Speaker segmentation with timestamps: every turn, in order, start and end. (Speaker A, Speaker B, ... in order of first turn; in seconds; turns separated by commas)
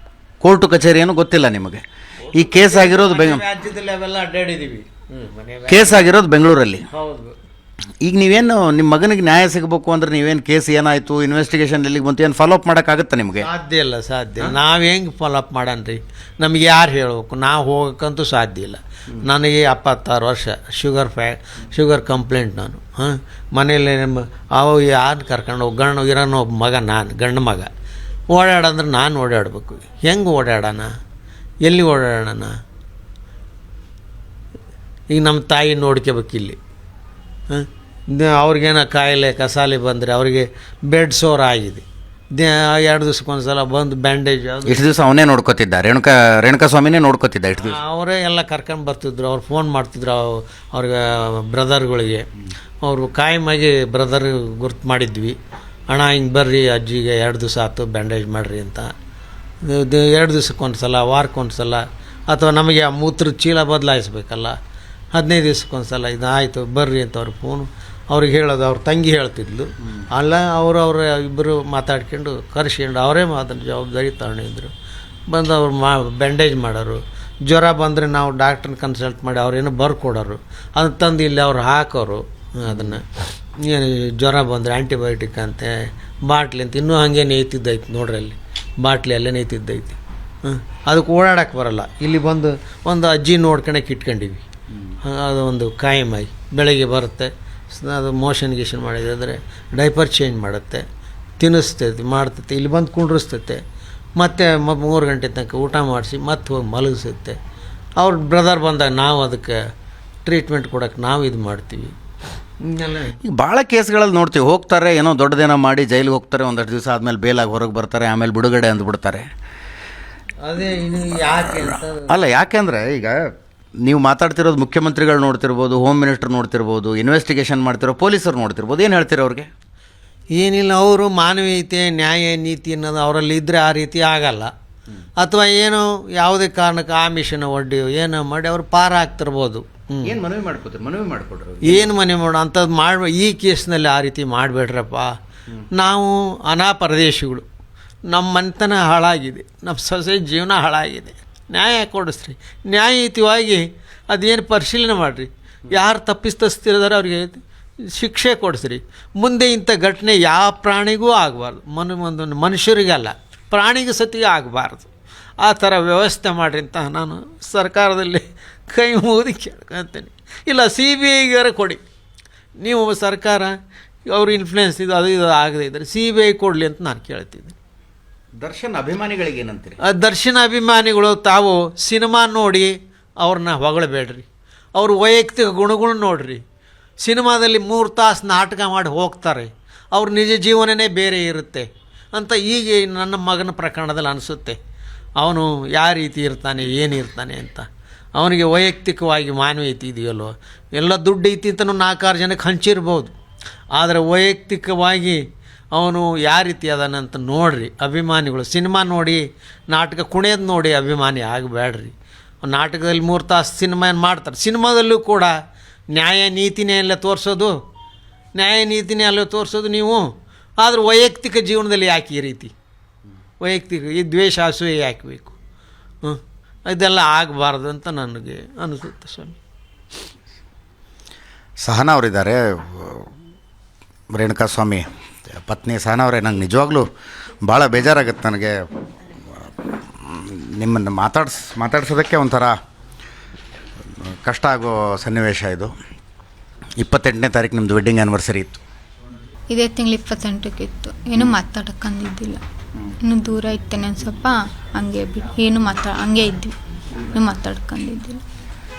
Speaker A: 0.4-1.8, Speaker A: 2.3-3.4, Speaker B: 2.3-6.1, Speaker A: 5.7-6.8, Speaker B: 6.9-7.3, Speaker A: 8.0-13.5, Speaker B: 13.4-27.7, Speaker B: 28.3-30.9, Speaker B: 31.6-32.5, Speaker B: 35.1-36.6, Speaker B: 37.5-41.9, Speaker B: 42.4-44.9, Speaker A: 44.7-47.8, Speaker B: 47.6-52.3, Speaker B: 52.8-55.4, Speaker B: 55.9-58.9, Speaker B: 59.6-64.5, Speaker B: 65.1-74.7, Speaker B: 75.3-83.1, Speaker A: 82.7-83.0, Speaker B: 83.6-94.5, Speaker B: 95.0-100.8, Speaker B: 101.4-103.6, Speaker B: 104.2-107.4, Speaker B: 108.0-109.6, Speaker B: 110.2-111.9, Speaker B: 112.6-113.2, Speaker A: 113.2-119.3, Speaker B: 120.4-122.2, Speaker A: 122.1-123.2, Speaker A: 123.8-129.5, Speaker B: 130.3-134.5, Speaker B: 135.2-140.1, Speaker A: 140.0-141.9, Speaker B: 141.6-145.1, Speaker B: 145.7-147.5, Speaker B: 148.1-157.4, Speaker B: 157.9-164.9, Speaker B: 165.4-171.8, Speaker B: 172.6-177.6, Speaker A: 178.4-179.8, Speaker B: 179.8-186.4, Speaker B: 187.0-194.6, Speaker B: 195.2-203.1, Speaker B: 203.7-215.3, Speaker B: 215.9-217.6, Speaker B: 218.4-220.1, Speaker B: 220.6-222.5, Speaker B: 223.4-225.4, Speaker B: 226.0-229.4, Speaker A: 231.6-233.1, Speaker A: 234.1-234.9, Speaker A: 235.4-236.9, Speaker A: 237.4-238.6, Speaker A: 240.1-242.6, Speaker A: 244.2-245.7, Speaker A: 246.8-248.6, Speaker C: 249.5-252.4, Speaker C: 253.0-256.5, Speaker C: 257.1-258.2